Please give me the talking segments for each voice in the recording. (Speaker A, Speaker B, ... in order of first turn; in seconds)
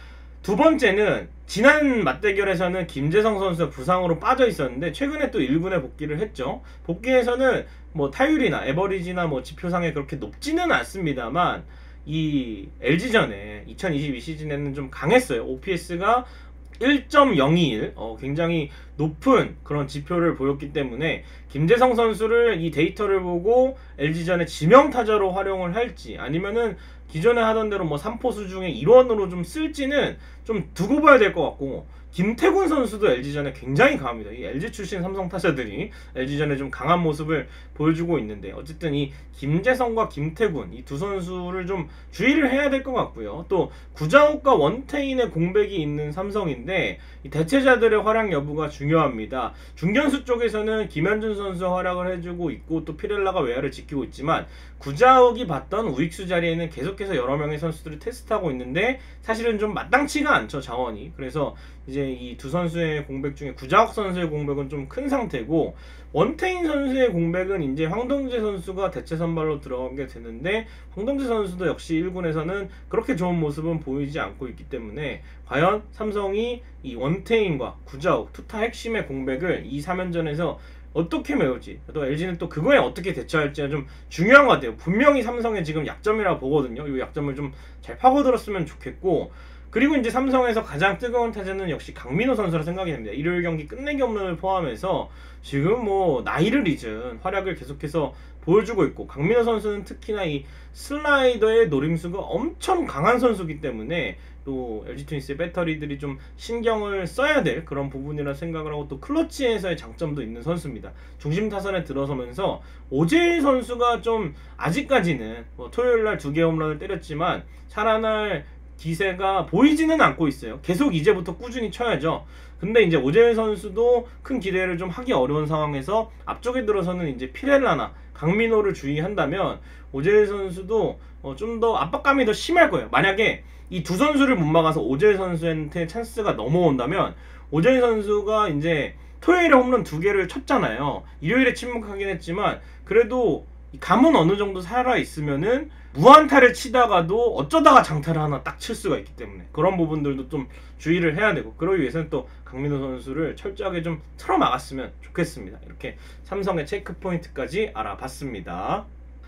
Speaker A: 0.4-158.9